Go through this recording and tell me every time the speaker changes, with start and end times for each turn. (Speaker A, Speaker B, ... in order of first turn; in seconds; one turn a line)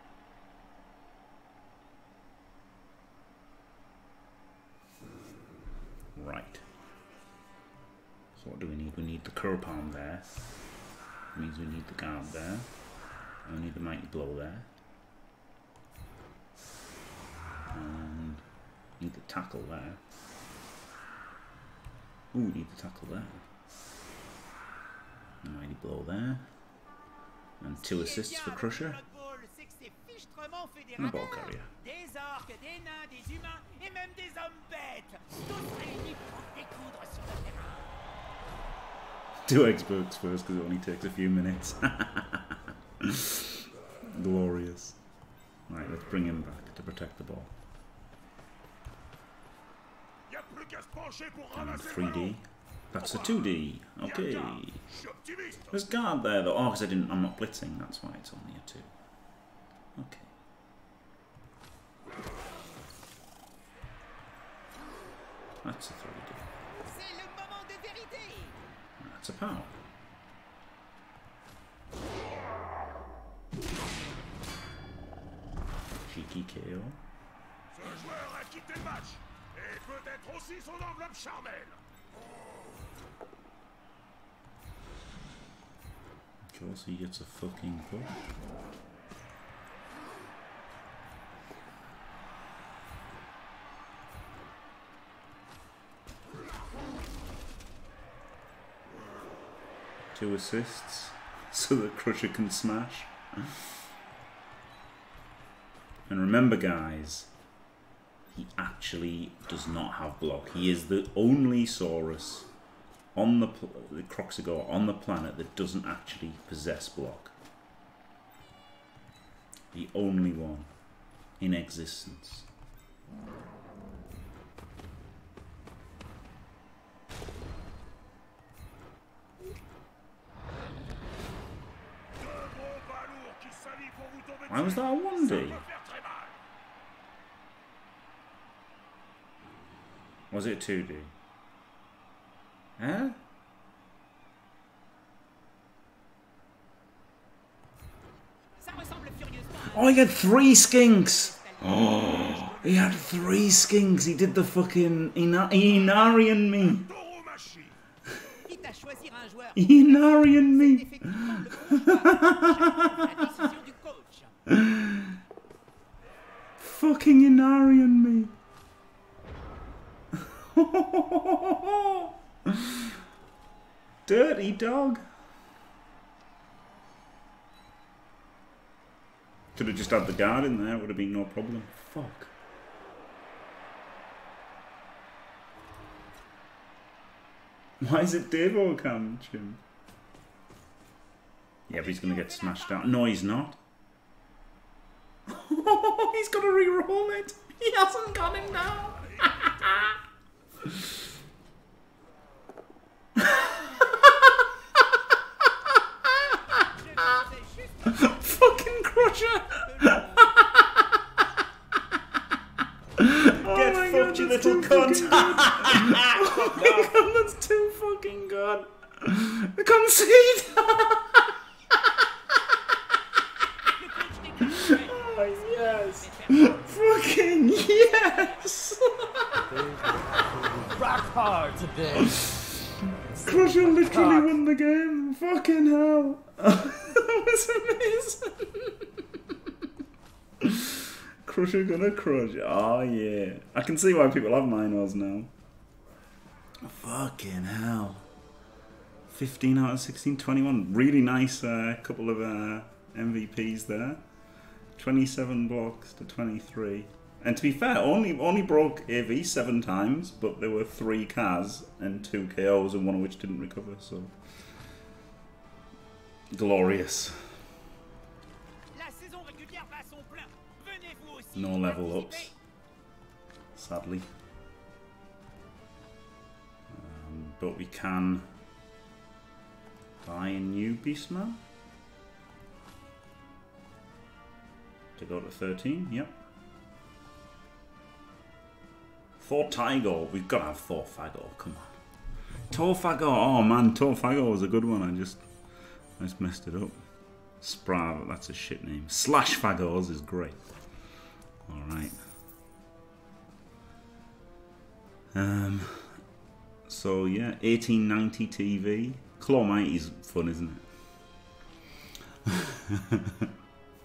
Speaker A: 6.1-6.6
Speaker A: 8.3-10.3
Speaker A: 11.3-12.7
Speaker A: 13.4-14.7
Speaker A: 17.7-18.4
Speaker A: 19.0-20.0
Speaker A: 22.3-23.4
Speaker A: 25.4-26.4
Speaker A: 27.6-29.0
Speaker B: 27.8-37.8
Speaker A: 31.0-31.7
Speaker A: 39.5-45.0
Speaker A: 45.7-47.5
Speaker C: 50.3-52.4
Speaker A: 51.5-54.8
Speaker C: 53.0-55.9
Speaker A: 55.7-58.9
Speaker A: 60.0-60.3
Speaker A: 65.6-66.5
Speaker B: 66.8-68.6
Speaker A: 69.0-69.7
Speaker A: 76.0-77.0
Speaker C: 77.7-81.8
Speaker A: 86.5-88.1
Speaker A: 100.1-103.7
Speaker A: 106.1-107.3
Speaker A: 108.3-112.5
Speaker A: 113.1-117.3
Speaker A: 119.7-120.7
Speaker A: 121.4-122.5
Speaker C: 132.1-136.4
Speaker A: 134.5-135.6
Speaker A: 140.3-141.1
Speaker A: 142.8-143.2
Speaker B: 148.6-152.2
Speaker A: 149.7-156.8
Speaker C: 152.1-154.4
Speaker C: 156.6-157.8
Speaker B: 158.4-164.3
Speaker A: 159.6-163.4
Speaker A: 164.5-165.2
Speaker A: 166.6-168.3
Speaker A: 170.2-173.0
Speaker A: 174.1-175.0
Speaker A: 179.5-182.3
Speaker A: 187.8-189.6
Speaker A: 191.7-193.6
Speaker B: 191.7-193.0
Speaker A: 195.3-199.9
Speaker C: 198.3-200.0
Speaker A: 200.6-200.9
Speaker A: 203.2-204.4
Speaker B: 206.0-210.4
Speaker A: 207.9-210.9
Speaker A: 213.0-221.2
Speaker D: 213.6-216.9
Speaker B: 215.2-216.3
Speaker B: 223.7-228.6
Speaker A: 224.6-229.4
Speaker D: 229.5-232.2
Speaker D: 233.0-234.3
Speaker A: 233.1-238.9
Speaker A: 240.4-245.3
Speaker A: 246.6-248.1
Speaker A: 249.1-254.0
Speaker A: 254.8-264.1
Speaker A: 266.3-267.3
Speaker B: 268.7-272.3
Speaker A: 271.3-272.3
Speaker A: 273.5-274.1
Speaker A: 276.7-278.3
Speaker A: 280.0-281.4
Speaker A: 285.0-286.2
Speaker A: 289.2-291.7
Speaker A: 292.5-295.2
Speaker A: 296.0-296.8
Speaker A: 297.4-300.4
Speaker A: 301.5-302.0
Speaker A: 305.1-306.0
Speaker A: 306.7-310.6
Speaker A: 312.2-313.3